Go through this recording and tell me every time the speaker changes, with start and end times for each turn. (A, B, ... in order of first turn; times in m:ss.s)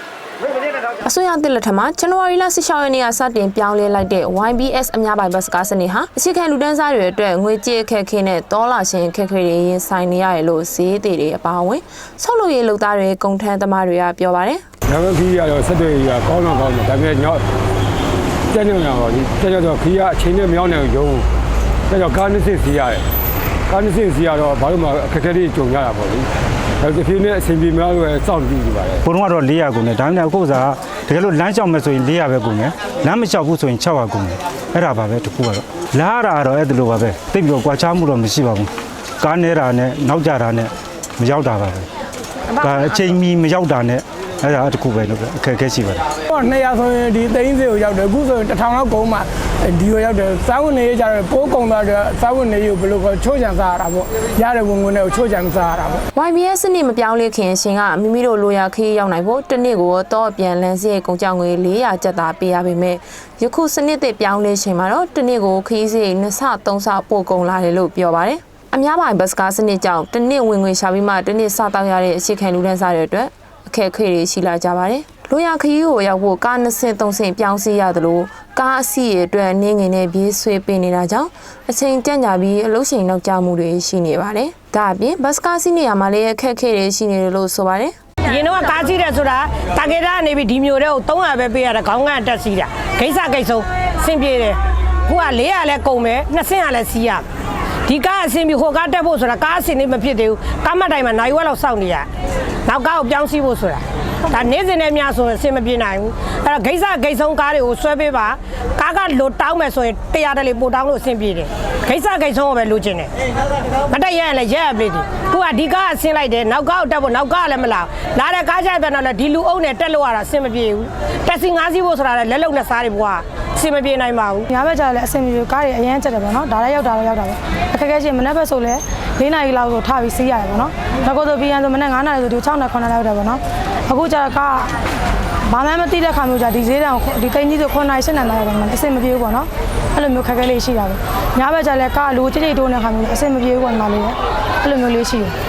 0:01.0-0:14.6 A
0:14.9-0:17.4 B
0:18.5-0:21.3 B
0:21.9-0:23.0 B
0:23.7-0:26.3 B
0:26.8-0:29.0 B
0:29.0-0:38.7 C
0:39.2-0:41.9 C
0:42.5-0:46.1 C
0:46.3-0:56.0 D
0:56.1-1:27.9 A
1:28.2-1:37.2 E
1:37.8-1:42.1 E
1:42.6-1:53.1 E
1:53.9-2:04.5 E
2:04.5-2:14.8 F
2:15.5-2:25.3 F